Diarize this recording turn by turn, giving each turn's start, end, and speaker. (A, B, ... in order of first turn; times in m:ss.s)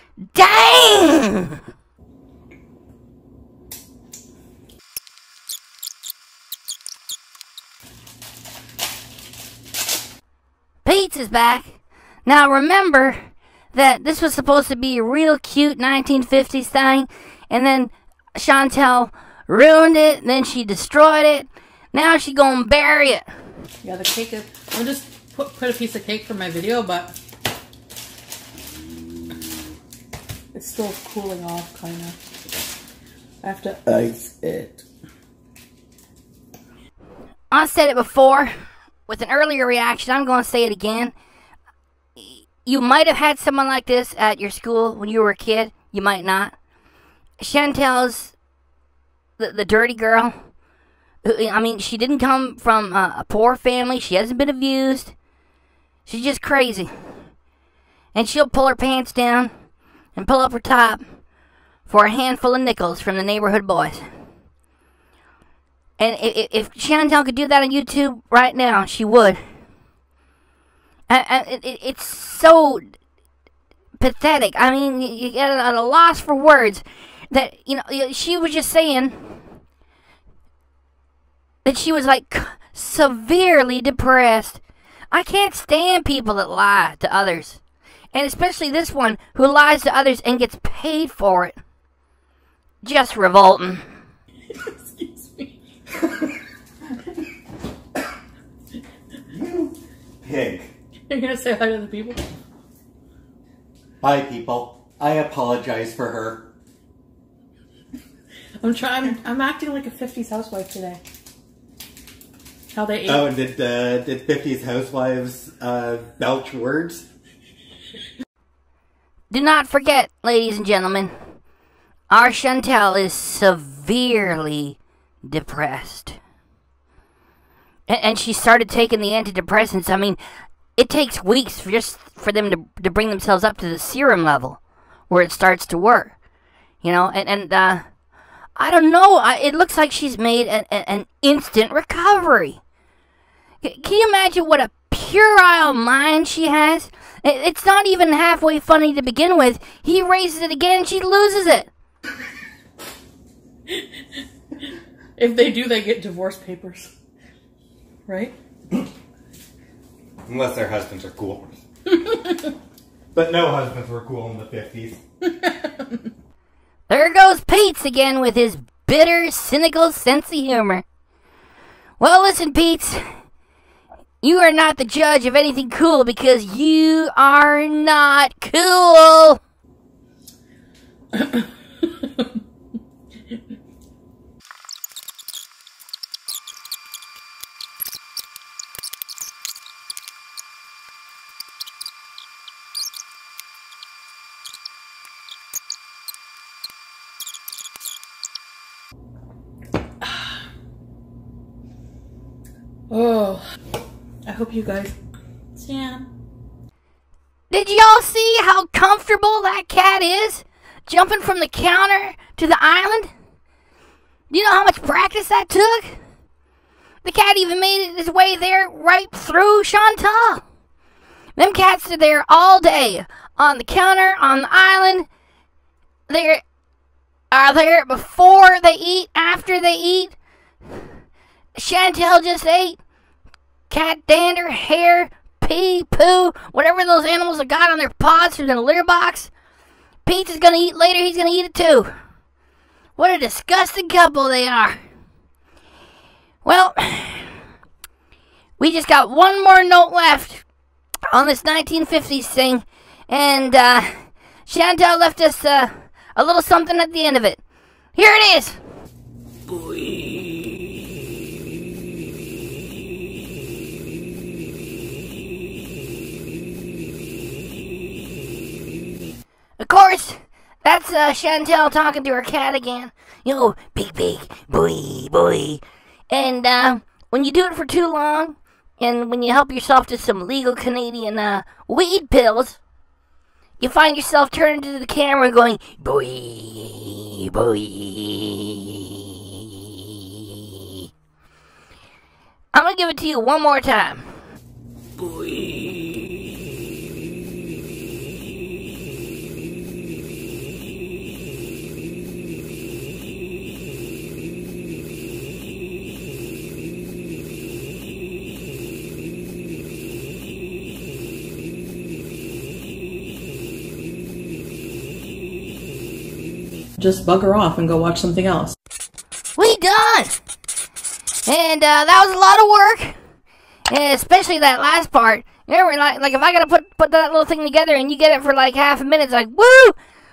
0:00.3-0:01.6 A
0:10.8-0:13.2 A
0:13.7-0:23.2 A
0:23.8-0:27.2 B
0:30.5-0:32.2 B
0:33.4-0:34.8 B
0:37.5-0:38.5 A
0:39.1-0:41.1 A
0:42.2-0:46.5 A
0:47.4-0:48.3 A
0:49.4-0:50.3 A
0:51.2-0:55.1 A
0:56.0-0:56.9 A
0:58.1-0:59.5 A
1:00.2-1:01.0 A
1:01.8-1:04.1 A
1:06.0-1:09.4 A
1:11.1-1:12.8 A
1:14.0-1:19.4 A
1:21.6-1:27.6 A
1:28.1-1:31.6 A
1:32.8-1:33.8 A
1:34.5-1:35.6 B
1:39.3-1:40.7 C
1:41.1-1:42.2 B
1:44.0-1:46.5 C
1:48.6-1:51.0 B
1:52.7-1:53.3 B
1:53.0-1:57.1 C
1:59.3-2:01.1 A
2:02.1-2:06.2 A
2:07.9-2:10.2 A
2:10.8-2:14.6 A
2:15.1-2:16.1 A
2:16.8-2:17.8 A
2:18.6-2:22.6 A
2:23.6-2:31.7 A
2:33.7-2:34.2 B
2:35.2-2:36.9 B
2:38.1-2:38.4 B
2:40.2-2:41.6 C
2:43.1-2:45.0 C
2:45.4-2:45.9 B
2:46.9-2:50.8 A
2:52.0-2:53.0 A
2:54.2-2:59.4 A
3:01.1-3:02.2 B
3:20.0-3:20.4 B
3:22.9-3:23.4 B
3:24.3-3:25.0 B
3:25.5-3:26.1 B
3:27.5-3:33.1 A
3:34.3-3:36.0 A
3:37.0-3:40.4 A
3:41.4-3:45.0 A
3:46.1-3:46.4 A
3:47.3-3:50.1 A
3:51.5-3:52.8 A
3:53.7-3:59.3 A
4:00.0-4:01.9 A
4:03.0-4:04.8 A
4:06.4-4:07.3 A
4:08.6-4:10.4 A
4:11.1-4:13.9 A
4:14.4-4:17.4 A
4:18.0-4:18.6 A
4:29.6-4:42.6 A
4:43.6-4:50.7 A
4:52.5-4:54.0 A
5:16.8-5:18.5 B
5:19.4-5:20.1 A
5:21.2-5:22.9 A
5:23.7-5:29.7 A